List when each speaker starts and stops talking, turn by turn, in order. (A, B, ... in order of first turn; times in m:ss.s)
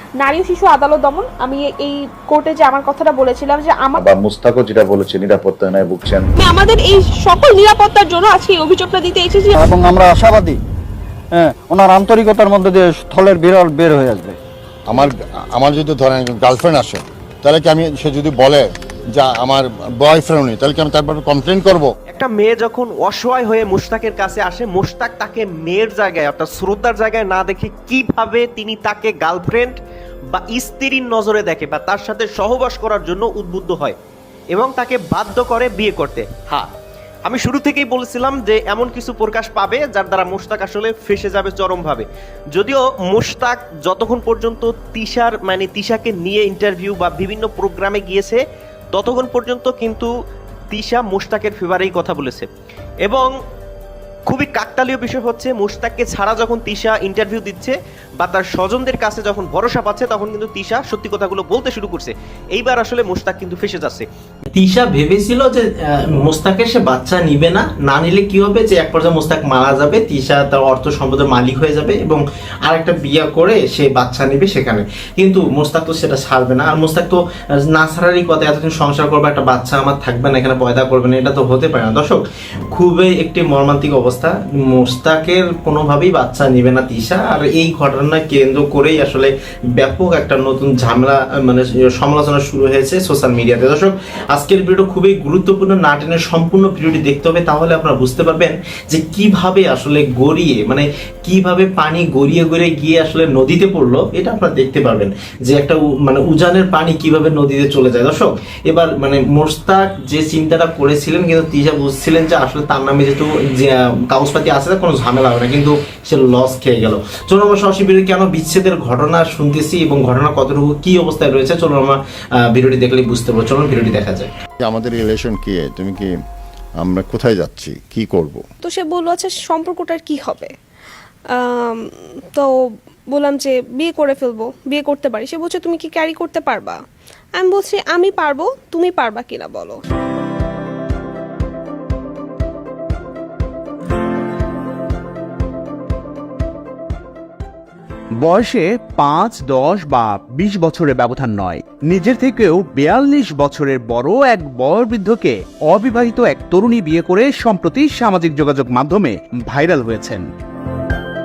0:00.2-0:03.9 A
0:04.0-0:06.3 B
0:06.4-0:09.6 A
0:09.6-0:10.6 C
0:11.3-0:14.4 C
0:14.9-0:21.9 D
0:22.1-0:29.8 E
0:30.3-0:34.0 E
0:34.5-0:36.7 E
0:37.2-0:48.4 E
0:48.9-0:50.1 E
0:50.7-0:52.5 E
0:53.0-0:53.3 E
0:54.3-1:04.0 E
1:04.5-1:17.2 F
1:17.7-2:04.3 F
2:04.6-2:06.1 D
2:06.8-2:08.4 D
2:08.6-2:10.5 A
2:11.3-2:12.5 A
2:13.1-2:16.8 A
2:17.4-2:19.8 A
2:28.2-2:40.2 G